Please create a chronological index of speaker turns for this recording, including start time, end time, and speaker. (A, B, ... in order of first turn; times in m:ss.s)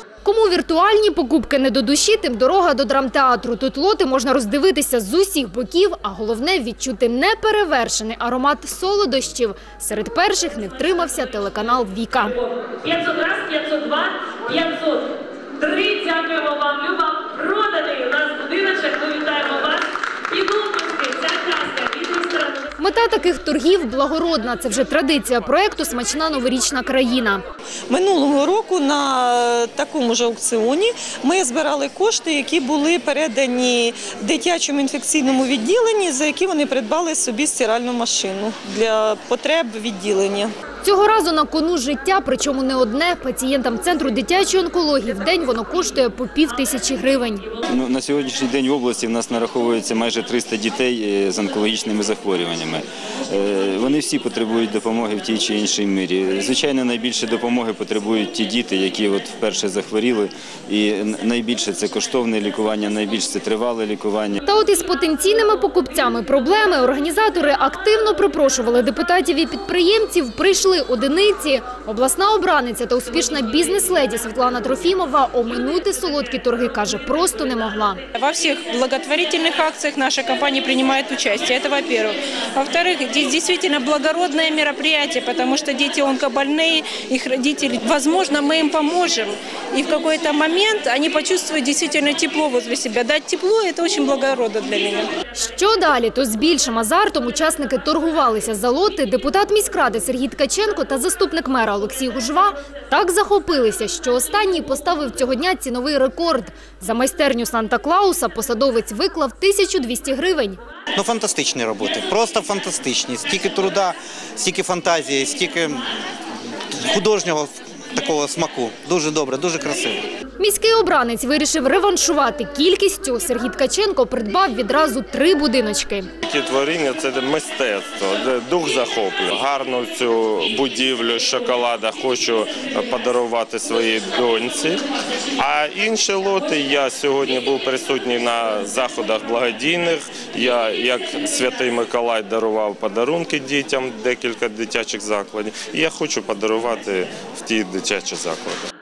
0:00.2-0:12.4 A
0:12.8-0:14.1 B
0:13.1-0:13.5 C
0:14.7-0:15.0 B
0:15.6-0:16.0 C
0:16.0-0:19.7 B
0:18.0-0:19.3 C
0:20.4-0:22.6 B
0:22.8-0:27.4 A
0:27.9-0:40.5 D
0:40.8-0:47.4 A
0:47.7-1:04.4 E
1:04.4-1:18.0 A
1:18.2-1:35.1 C
1:35.3-1:50.6 A
1:50.9-1:55.9 F
1:56.8-2:00.0 F
2:00.4-2:06.1 A
2:06.2-2:14.8 G
2:15.4-2:28.7 G